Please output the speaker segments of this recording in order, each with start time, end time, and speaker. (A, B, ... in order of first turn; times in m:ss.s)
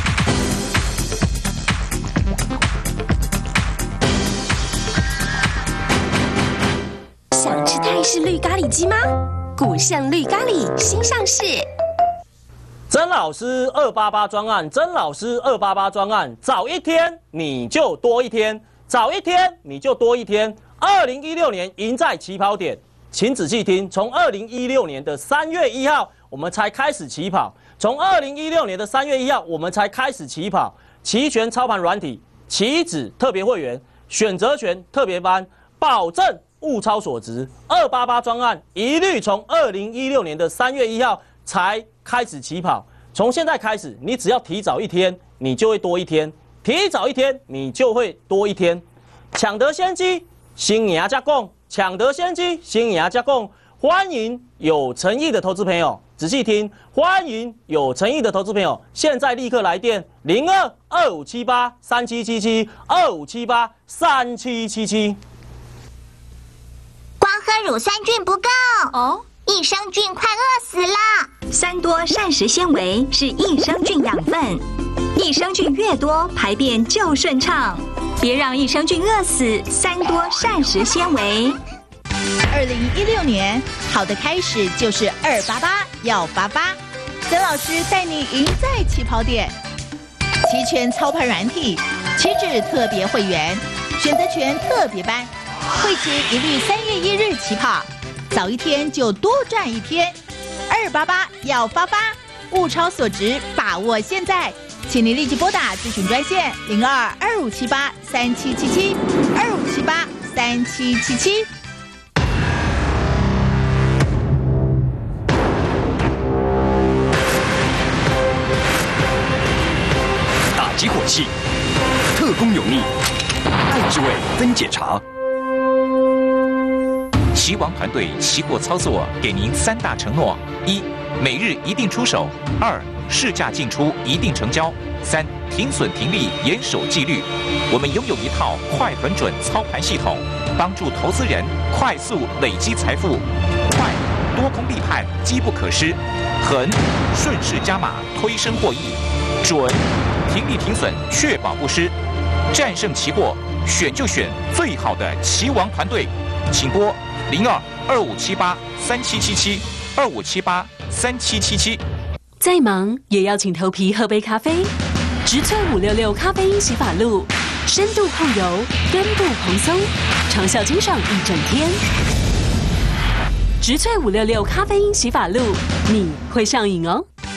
0:07.3-0:11.6 A
0:12.9-1:05.2 B
1:07.2-1:11.3 C
1:11.5-1:14.6 D
1:15.1-1:21.6 D
1:22.5-1:29.6 E
1:30.4-1:40.2 E
1:40.7-1:51.5 E
2:00.5-2:01.3 F
2:02.1-2:02.9 F
2:03.7-2:05.0 F
2:07.3-2:31.9 G
2:32.5-2:41.8 G
2:42.4-2:44.7 H
2:45.2-2:51.8 H
2:53.6-2:57.0 H